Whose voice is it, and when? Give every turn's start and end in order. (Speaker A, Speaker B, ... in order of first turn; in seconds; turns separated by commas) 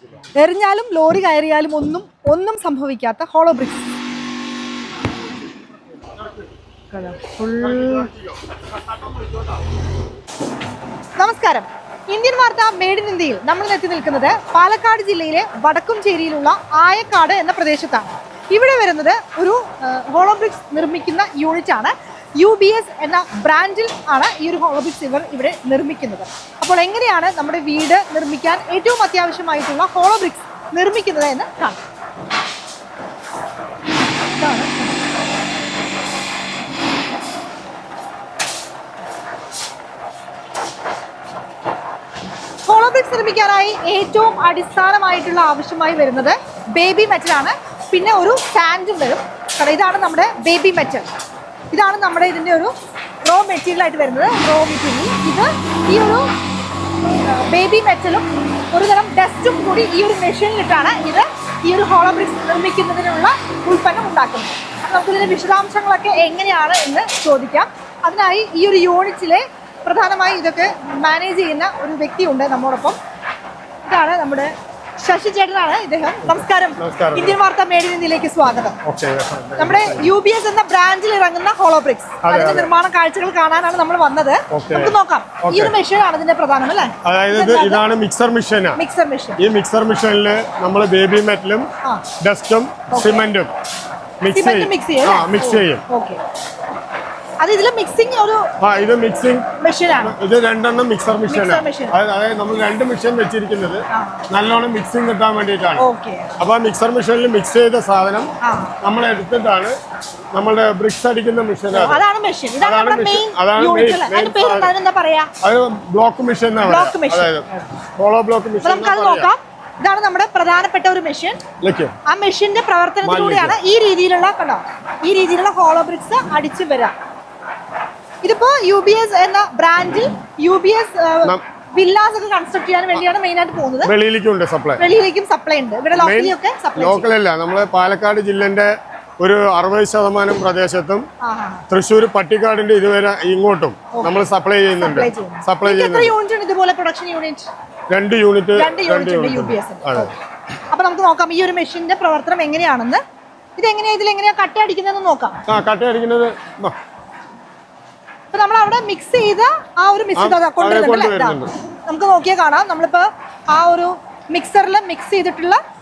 Speaker A: 0.3-4.0, Speaker A: 6.9-8.1, Speaker A: 11.2-31.8, Speaker A: 34.3-35.0, Speaker A: 42.7-51.1, Speaker A: 51.7-52.7, Speaker A: 53.2-56.3, Speaker A: 57.2-73.0, Speaker A: 73.8-78.8, Speaker B: 76.2-77.4, Speaker B: 78.8-80.1, Speaker A: 79.6-87.8, Speaker B: 82.2-82.7, Speaker B: 84.5-85.7, Speaker B: 87.0-88.8, Speaker A: 88.8-89.4, Speaker B: 89.4-91.7, Speaker B: 92.2-93.5, Speaker A: 92.9-93.2, Speaker B: 94.2-95.8, Speaker A: 94.3-96.2, Speaker A: 97.4-98.5, Speaker B: 98.6-105.9, Speaker A: 99.6-100.2, Speaker A: 101.3-102.0, Speaker A: 103.9-104.3, Speaker A: 105.8-106.4, Speaker B: 106.4-109.8, Speaker A: 108.4-108.7, Speaker B: 110.3-112.0, Speaker A: 111.7-115.3, Speaker B: 112.6-114.7, Speaker B: 115.4-119.3, Speaker A: 116.6-117.6, Speaker A: 118.6-121.4, Speaker B: 121.6-121.9, Speaker A: 122.1-126.9, Speaker B: 123.0-123.6, Speaker A: 128.2-133.9, Speaker B: 133.8-134.8, Speaker A: 134.8-137.1, Speaker B: 135.9-141.1, Speaker A: 141.2-141.6, Speaker B: 141.7-146.1, Speaker A: 143.9-144.2, Speaker A: 144.8-147.5, Speaker B: 147.9-150.1, Speaker A: 148.5-150.2, Speaker A: 150.7-153.0, Speaker A: 153.6-155.4, Speaker B: 155.5-156.8, Speaker A: 158.3-165.6, Speaker B: 160.2-161.5